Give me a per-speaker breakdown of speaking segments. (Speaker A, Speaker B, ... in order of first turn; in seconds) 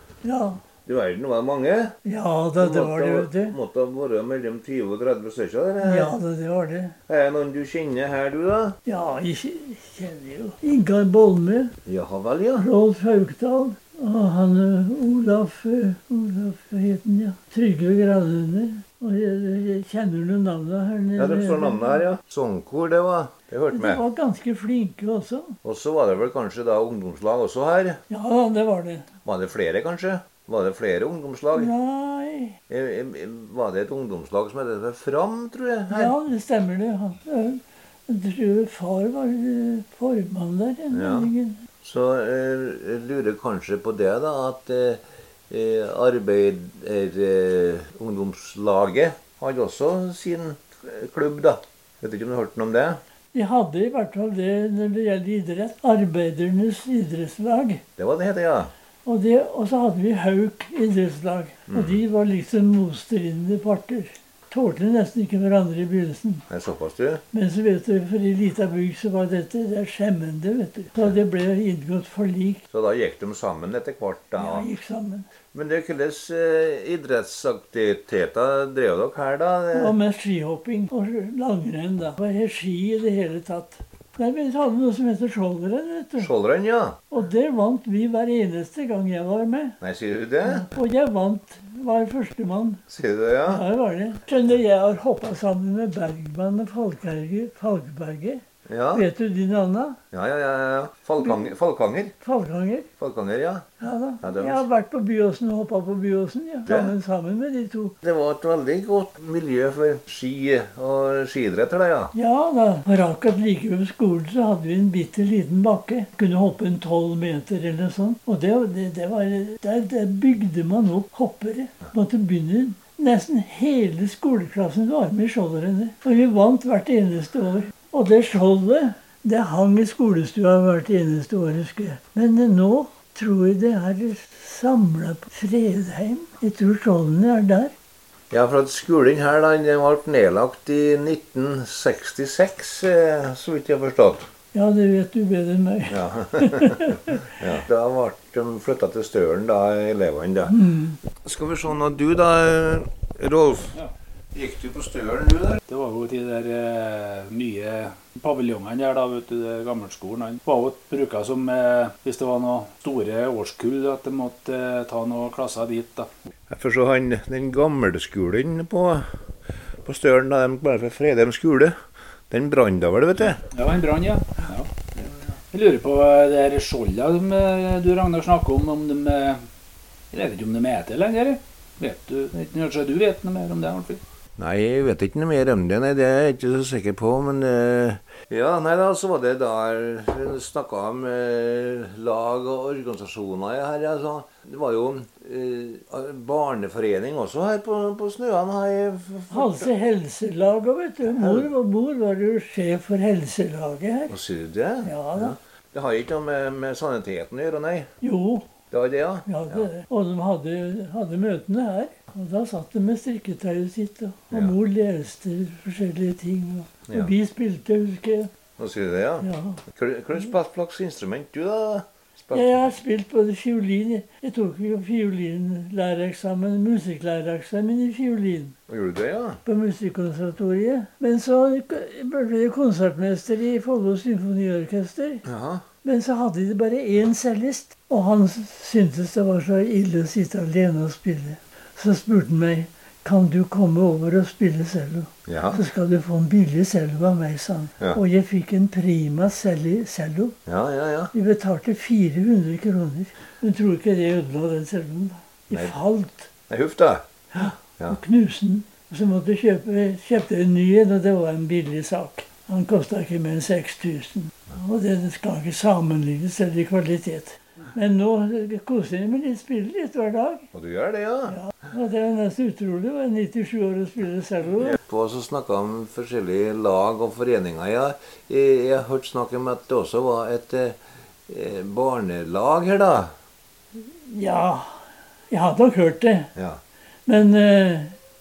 Speaker A: 0.2-0.6, 2.0-3.5, 5.8-7.0, 8.9-11.8, 12.6-22.0, 23.7-25.6, 28.1-29.1, 31.5-32.6, 35.9-41.6, 53.3-57.8, 59.0-66.5, 67.3-72.6, 74.4-75.3, 79.7-86.3, 87.1-89.8, 90.4-92.8, 93.4-98.4, 98.9-100.0, 101.2-101.5, 102.2-102.9, 103.8-108.0, 112.1-137.7, 144.5-147.3, 150.5-151.0, 199.3-204.2, 204.8-205.4, 208.0-208.5, 209.2-218.3, 219.2-219.6, 222.3-228.6, 229.4-235.2, 235.8-250.4, 251.1-256.3, 257.3-270.5, 271.3-274.8, 283.8-286.3, 287.1-287.9
Speaker B: 0.8-2.0, 2.6-6.1, 7.1-8.8, 11.9-12.7, 21.2-24.0, 25.6-28.0, 29.2-31.7, 32.7-36.1, 40.9-41.3, 41.8-53.0, 58.0-58.7, 61.7-62.0, 66.5-67.2, 72.7-74.7, 75.5-79.9, 86.2-87.0, 89.8-90.7, 92.9-93.6, 98.7-99.0, 100.1-102.1, 103.0-104.6, 106.7-106.9, 108.0-112.1, 138.3-144.3, 145.9-153.8, 154.3-155.6, 166.5-169.1, 169.8-171.8, 172.3-173.4, 184.4-199.7, 201.1-201.5, 204.1-207.9, 208.7-209.7, 218.6-222.5, 228.7-229.4, 235.2-235.6, 245.3-245.6, 250.4-251.1, 255.5-255.8, 256.5-258.0, 270.5-271.4, 274.6-280.8, 281.3-283.1
Speaker C: 155.7-166.1, 173.4-174.7, 175.5-179.4, 180.1-184.0